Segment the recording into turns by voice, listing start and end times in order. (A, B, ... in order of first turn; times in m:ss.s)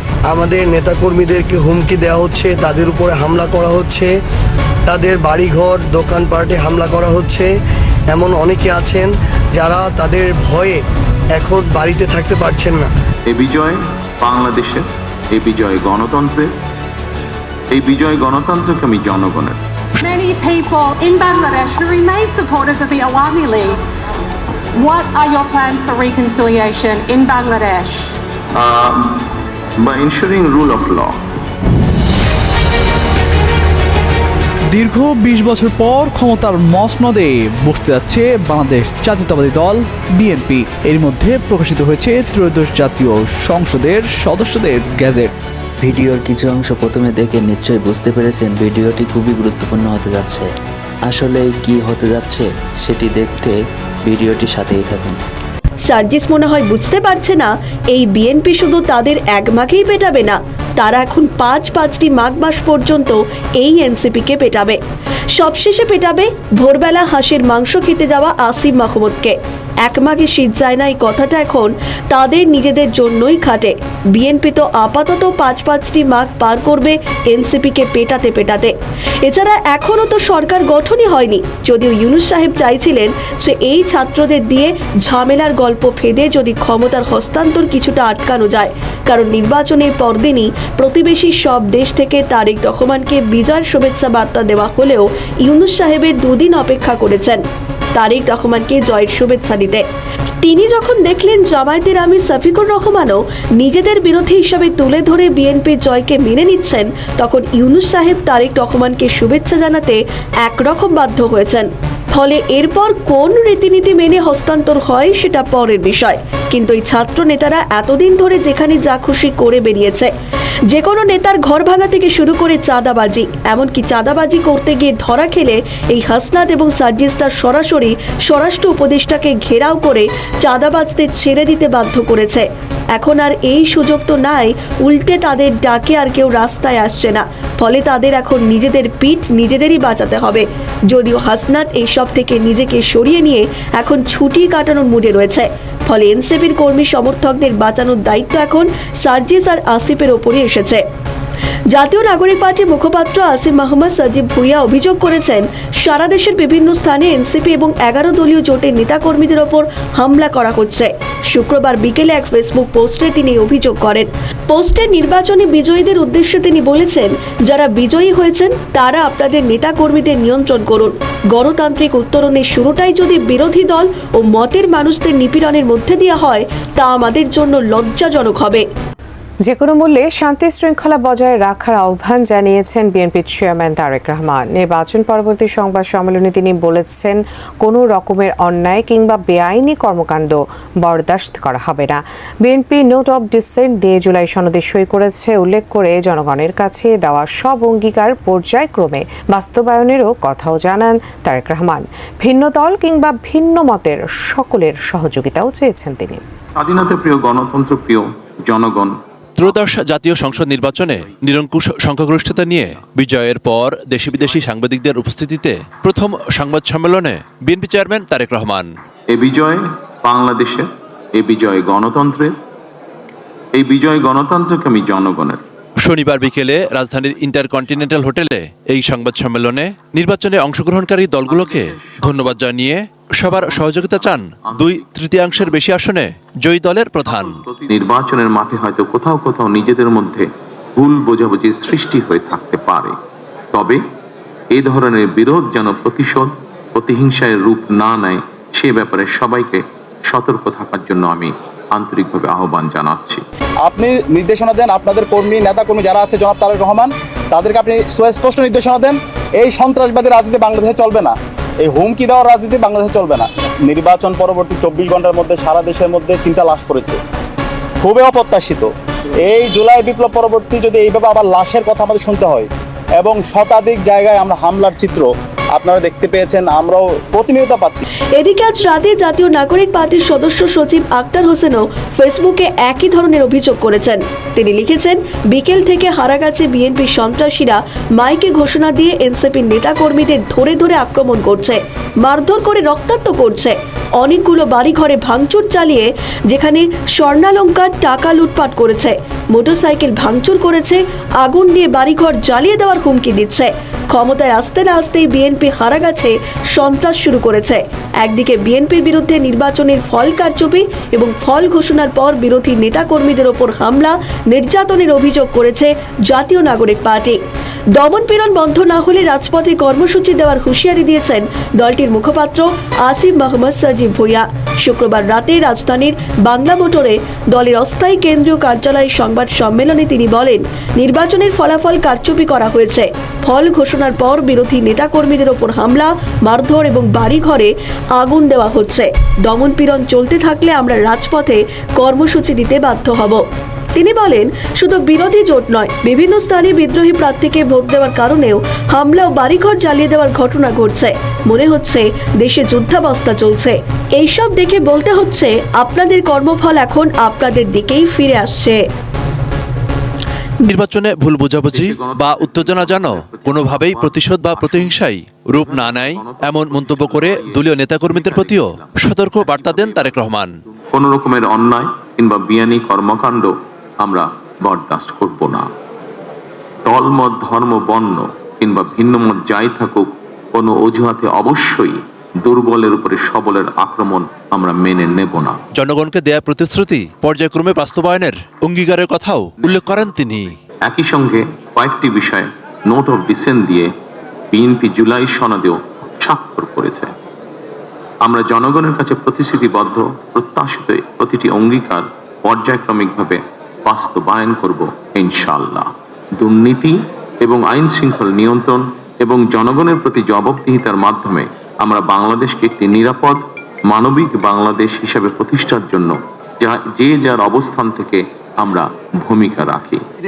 0:00.3-0:04.1 A
0:04.9-0:07.5 A
0:08.1-0:10.8 A
0:11.3-0:12.9 A
0:13.3-0:16.5 B
0:17.7-0:19.6 B
0:20.0-0:23.8 C
0:24.8-0:28.1 C
0:28.5-0:29.2 B
0:29.8-0:31.2 B
0:34.7-0:45.3 D
0:45.8-0:50.5 E
0:51.0-0:55.2 E
0:55.8-1:04.8 F
1:05.3-1:37.4 F
1:37.9-1:39.8 F
1:40.4-2:00.1 F
2:00.7-2:30.8 F
2:31.7-2:58.6 F
2:59.4-3:26.2 G
3:26.6-3:29.5 B
3:29.4-3:38.7 H
3:30.3-3:30.9 B
3:32.3-3:32.8 B
3:39.1-3:42.3 B
3:43.6-3:45.4 B
3:45.8-3:57.4 H
3:51.3-3:52.4 B
3:53.3-3:55.6 B
3:57.0-4:02.9 B
4:03.5-4:03.8 B
4:04.5-4:13.2 B
4:13.6-4:27.0 I
4:27.8-4:37.8 I
4:38.2-5:17.2 F
5:17.7-5:58.6 F
6:00.4-6:10.3 H
6:01.5-6:04.8 B
6:05.4-6:10.1 B
6:10.6-6:15.5 B
6:16.6-6:25.4 B
6:25.5-6:30.3 H
6:30.6-6:33.7 B
6:34.3-6:36.9 B
6:38.0-6:45.6 B
6:46.2-6:59.8 B